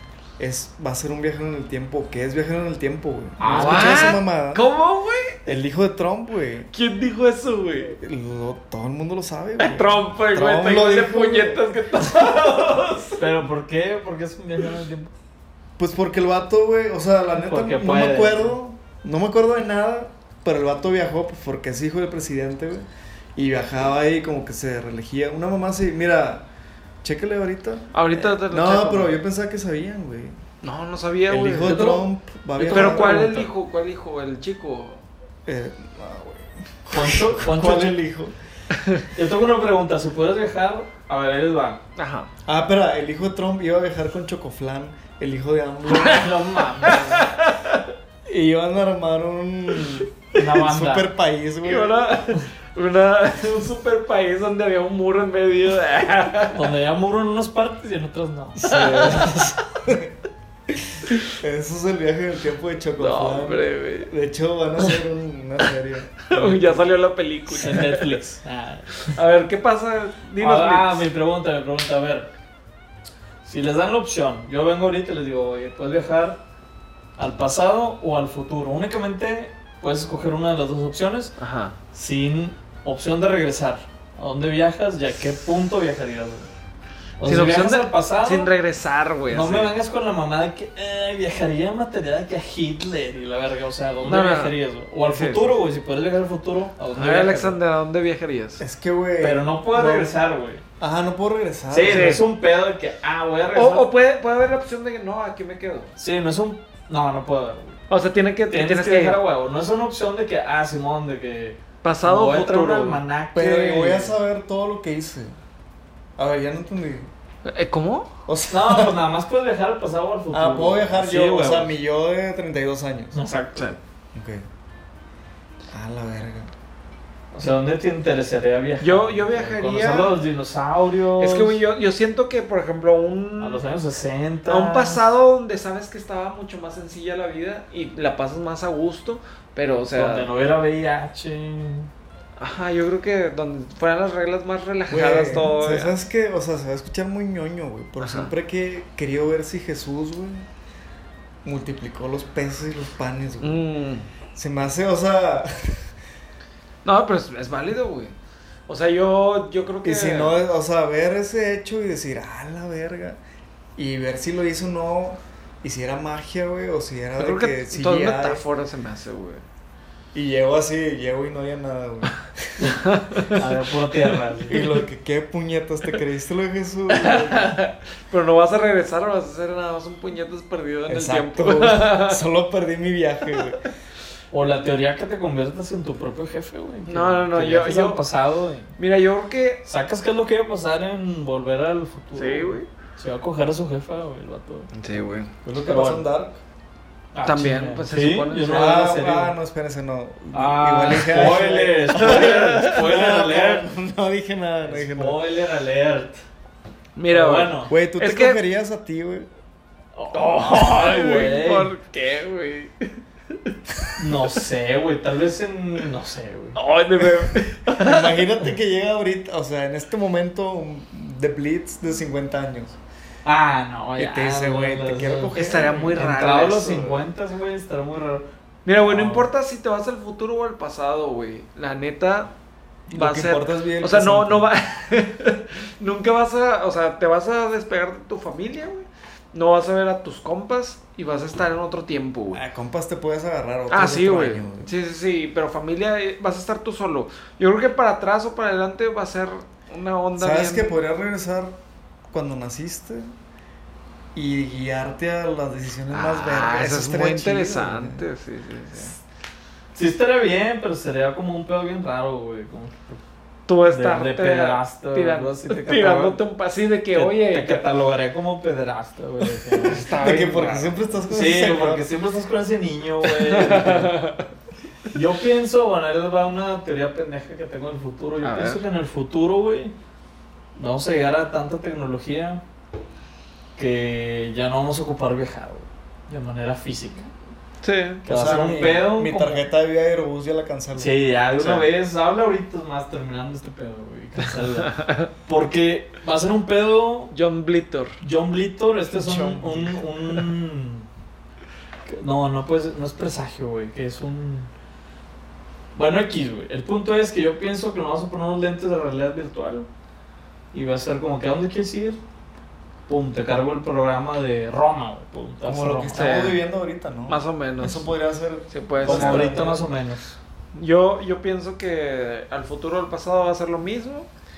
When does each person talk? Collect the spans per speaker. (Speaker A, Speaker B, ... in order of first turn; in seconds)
Speaker A: 0.4-4.6, 5.5-6.7, 7.9-11.7, 15.8-26.4, 27.0-30.4, 31.3-33.3, 35.5-38.3, 42.5-46.3, 48.3-52.0, 58.5-60.1, 60.7-66.8, 98.6-100.1, 100.8-102.2, 113.3-115.3, 116.2-117.1, 118.3-119.0, 120.3-123.2, 124.1-124.4, 125.7-126.5, 144.9-150.5, 151.4-153.6, 154.3-155.9, 159.8-163.2, 163.8-168.4, 170.1-173.3, 174.5-177.5, 180.9-183.6, 195.4-196.4, 198.5-205.2, 207.7-209.3, 217.7-222.8, 224.0-225.7, 232.9-234.5, 242.3-244.7, 250.2-253.1, 254.1-258.0, 269.9-271.9, 288.1-291.0, 298.9-299.8, 315.4-319.4
Speaker B: 3.4-4.1, 13.2-15.1, 17.4-18.6, 31.6-33.5, 36.9-38.0, 39.1-41.8, 45.9-47.3, 50.3-51.1, 56.5-59.4, 67.5-69.2, 70.4-72.3, 73.4-76.4, 77.2-81.3, 81.9-86.5, 87.2-88.5, 89.3-97.5, 99.2-100.6, 101.7-103.9, 106.0-107.8, 108.5-114.1, 118.5-121.7, 123.1-123.8, 127.3-131.6, 133.4-135.0, 139.9-141.9, 173.3-174.6, 184.3-188.8, 189.6-194.7, 195.5-196.1, 197.1-199.3, 200.3-203.7, 204.6-206.2, 207.1-207.7, 209.9-211.7, 214.0-216.6, 223.2-228.2, 228.8-229.3, 259.7-263.0, 263.7-266.2, 266.9-270.2, 271.1-274.0, 274.9-279.7, 280.6-282.4, 283.6-287.1, 288.0-289.4, 290.8-297.1, 298.0-300.9, 301.9-304.5, 305.7-309.7, 310.5-312.0, 312.9-316.2, 318.8-320.2
Speaker C: 3.5-5.4, 6.7-7.9, 9.6-13.2, 27.9-29.1, 30.6-31.9, 32.7-35.0, 42.0-42.3, 46.0-46.2, 46.8-47.8, 51.6-56.7, 58.6-59.9, 63.0-64.1, 66.2-68.2, 69.1-71.0, 81.4-81.8, 87.2-89.7, 94.0-94.5, 95.1-95.5, 96.9-98.6, 101.9-102.2, 103.5-105.9, 107.9-109.2, 111.8-113.0, 117.4-118.1, 128.8-130.2, 131.2-133.6, 134.5-140.3, 142.4-145.9, 148.0-148.3, 153.4-154.0, 156.8-158.2, 158.7-160.4, 167.2-169.4, 172.8-173.4, 174.5-174.8, 176.9-182.2, 183.3-183.7, 186.9-188.0, 188.8-189.6, 192.1-192.7, 194.7-195.3, 197.2-198.8, 202.0-202.7, 206.9-208.4, 210.1-214.4, 216.5-218.3, 225.3-227.0, 228.6-232.3, 232.9-242.4, 243.7-250.7, 255.9-259.0, 263.5-267.7, 269.6-270.8, 273.0-274.2, 278.2-278.6, 287.6-288.0, 291.4-291.7, 294.7-295.1, 297.1-298.0, 315.9-316.4, 317.1-317.9, 318.5-319.6, 320.5-324.1